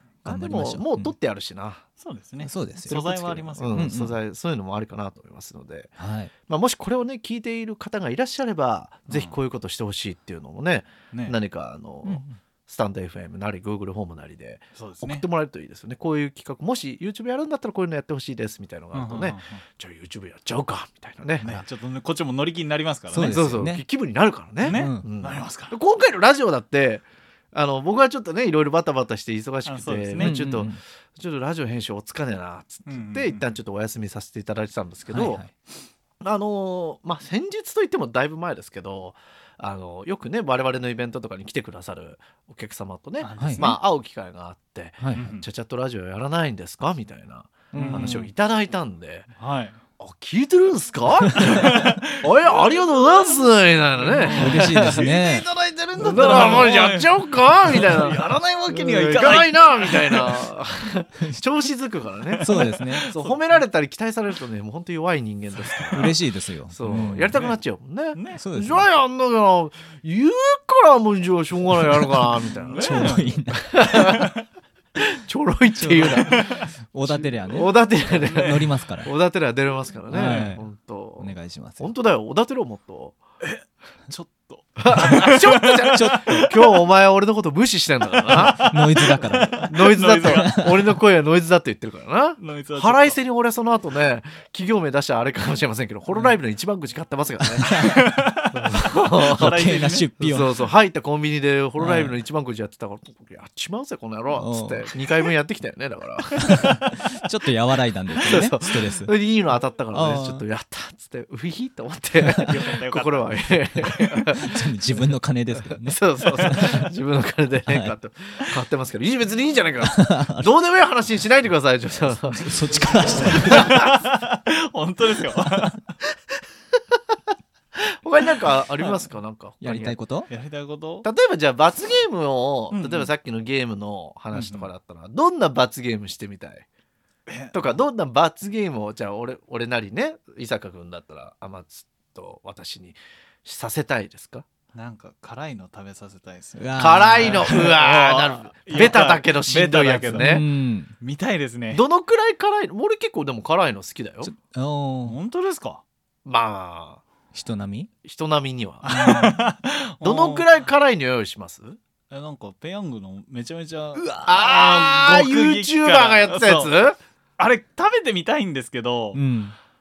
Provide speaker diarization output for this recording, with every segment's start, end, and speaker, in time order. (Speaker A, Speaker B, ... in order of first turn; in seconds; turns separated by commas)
Speaker A: 0.2-1.8, Speaker B: 0.2-1.1, Speaker C: 2.0-3.9, Speaker B: 2.4-3.0, Speaker A: 2.9-5.9, Speaker B: 3.7-4.2, Speaker B: 6.0-6.3, Speaker A: 6.5-21.6, Speaker C: 9.1-9.3, Speaker C: 11.1-11.3, Speaker B: 12.0-12.3, Speaker C: 14.7-15.2, Speaker C: 18.9-19.6, Speaker C: 21.4-23.5, Speaker B: 23.1-23.8, Speaker A: 23.2-35.4, Speaker C: 24.6-25.7, Speaker B: 24.7-25.0, Speaker C: 29.6-30.4, Speaker B: 30.2-30.8, Speaker C: 32.9-33.5, Speaker B: 35.1-35.5, Speaker A: 36.2-49.3, Speaker C: 43.2-43.8, Speaker B: 43.4-43.7, Speaker B: 45.0-45.3, Speaker C: 45.1-45.5, Speaker B: 47.7-48.3, Speaker C: 47.7-48.3, Speaker C: 49.4-49.8, Speaker A: 50.0-66.1, Speaker C: 51.4-52.2, Speaker C: 54.0-55.1, Speaker B: 54.3-56.7, Speaker C: 56.0-60.5, Speaker C: 62.3-63.4, Speaker B: 62.4-63.1, Speaker C: 65.6-66.1, Speaker B: 65.9-67.3, Speaker A: 66.7-74.3, Speaker C: 68.1-68.4, Speaker B: 68.3-68.9, Speaker B: 71.8-74.1, Speaker C: 72.6-73.4, Speaker C: 74.0-74.4, Speaker A: 75.0-83.2, Speaker B: 75.7-79.1, Speaker C: 76.2-76.7, Speaker C: 78.2-78.7, Speaker B: 80.1-80.6, Speaker C: 80.1-80.6, Speaker B: 81.2-81.9, Speaker C: 83.4-86.5, Speaker A: 84.8-88.8, Speaker B: 85.9-86.5, Speaker C: 88.3-90.5, Speaker B: 88.3-90.9, Speaker A: 89.5-97.8, Speaker C: 92.4-93.2, Speaker B: 97.4-98.2, Speaker C: 97.7-100.1, Speaker A: 98.5-106.8, Speaker B: 99.2-100.5, Speaker B: 101.8-102.2, Speaker B: 104.3-104.8, Speaker B: 106.4-109.1, Speaker A: 108.2-114.5, Speaker B: 109.9-110.4, Speaker C: 112.3-113.4, Speaker B: 113.8-116.9, Speaker A: 115.8-124.0, Speaker B: 117.7-117.9, Speaker B: 119.8-120.5, Speaker B: 122.3-123.8, Speaker C: 123.2-125.8, Speaker B: 125.4-125.7, Speaker A: 127.8-130.0, Speaker B: 129.6-130.3, Speaker C: 130.3-131.1, Speaker A: 131.0-136.7, Speaker C: 132.7-133.1, Speaker C: 134.3-134.7, Speaker C: 137.3-137.7, Speaker A: 137.5-144.4, Speaker C: 144.7-150.5, Speaker B: 146.6-147.7, Speaker A: 146.8-150.4, Speaker B: 150.2-150.9, Speaker C: 151.0-151.8, Speaker A: 151.7-154.3, Speaker B: 154.2-155.2, Speaker C: 155.0-155.8, Speaker A: 156.2-157.0, Speaker B: 157.3-157.9, Speaker A: 158.0-158.9, Speaker C: 158.8-160.7, Speaker B: 158.9-159.4, Speaker A: 160.0-161.8, Speaker C: 162.1-166.7, Speaker B: 163.9-164.4, Speaker A: 164.2-167.0, Speaker C: 167.4-169.2, Speaker B: 169.1-169.6